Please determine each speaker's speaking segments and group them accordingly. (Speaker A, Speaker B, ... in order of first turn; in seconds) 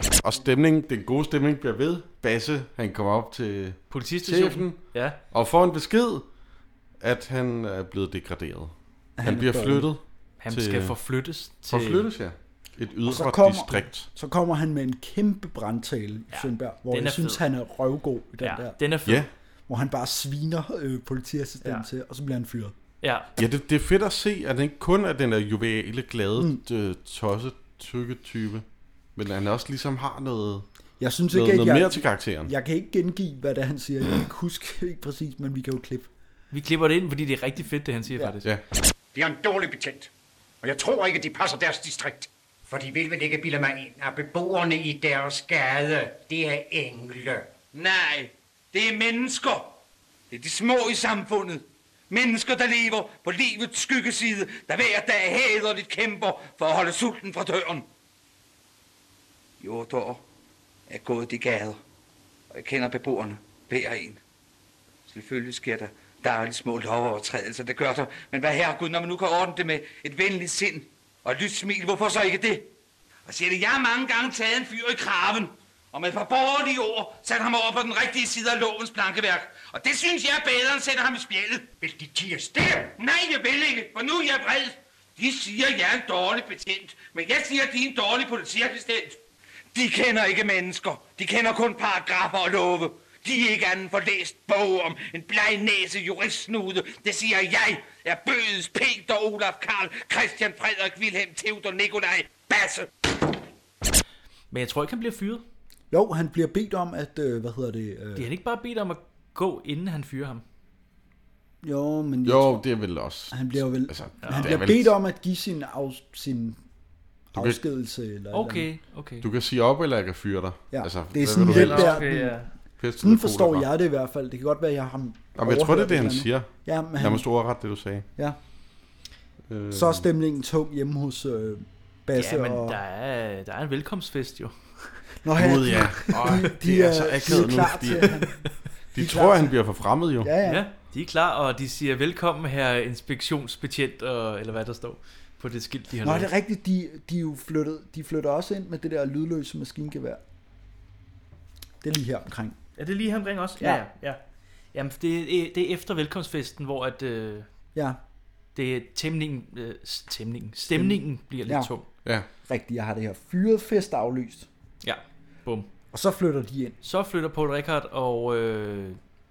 Speaker A: 0.2-6.3, 7.0-10.9, 11.7-14.1, 23.4-28.6, 29.2-30.7, 31.3-32.5, 112.2-114.9, 119.2-122.0, 122.8-123.7, 125.4-128.1, 129.5-130.1, 135.4-138.3, 138.9-140.3
Speaker B: 3.9-5.2, 10.4-12.1, 16.3-17.4, 18.4-19.2, 23.0-23.3, 36.5-38.5, 104.5-105.4, 108.2-110.4, 114.2-114.5, 118.3-119.3, 121.5-122.5, 132.2-135.0, 140.4-146.3, 152.8-154.2, 154.7-157.5, 158.6-161.9, 164.8-165.7, 166.8-169.0
Speaker C: 9.2-9.9, 13.1-18.8, 19.7-22.7, 31.0-36.1, 105.9-108.3, 111.6-112.6, 113.3-116.6, 117.3-118.7, 120.7-122.4, 123.0-127.2, 129.7-132.8, 135.2-138.4, 139.0-139.5, 140.2-140.6, 146.0-150.2, 151.8-152.6, 157.7-158.0, 160.7-161.7, 162.4-164.5, 165.9-166.8
Speaker D: 39.1-40.1, 40.6-47.5, 81.8-82.9
Speaker E: 47.7-49.8, 50.3-57.9, 59.6-60.2, 60.9-61.8, 62.5-64.2, 65.1-72.7, 73.3-81.7, 83.0-89.2, 89.7-102.9